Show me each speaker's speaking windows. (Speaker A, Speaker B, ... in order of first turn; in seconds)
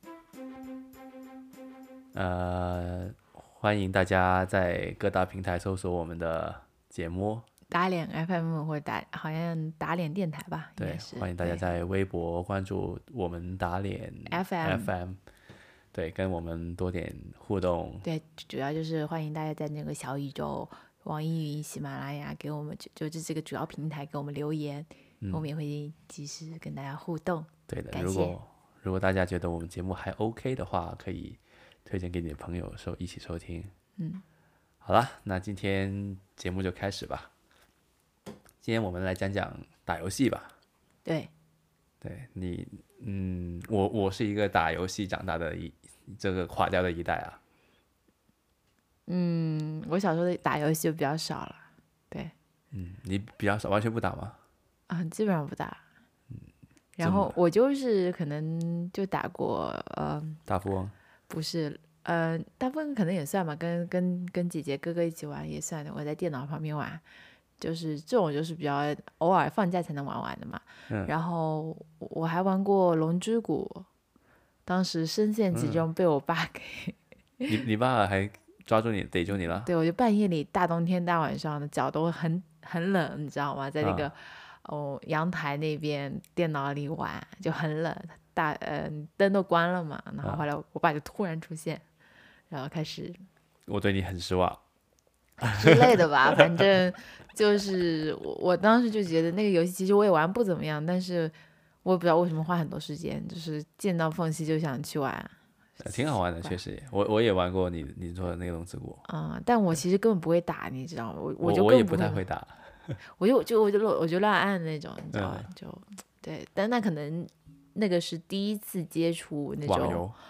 Speaker A: 2.1-7.5, 10.8-15.2, 15.9-18.1, 25.2-25.5, 27.7-33.7, 34.8-37.3, 38.6-40.5, 42.0-47.4, 52.7-54.4, 57.0-57.4, 60.5-60.9, 75.5-75.8, 77.5-79.7, 83.8-84.1, 93.7-94.6, 95.4-96.7, 105.8-109.0, 111.4-113.0, 115.1-115.5, 119.6-120.2
Speaker B: 7.7-11.7, 14.3-14.9, 18.0-28.4, 34.0-34.2, 41.0-41.3, 49.1-52.3, 54.9-55.8, 57.0-60.4, 61.3-67.0, 67.6-73.9, 74.7-77.5, 79.6-91.8, 92.5-93.2, 95.4-101.3, 101.8-106.6, 109.1-112.2, 113.2-120.0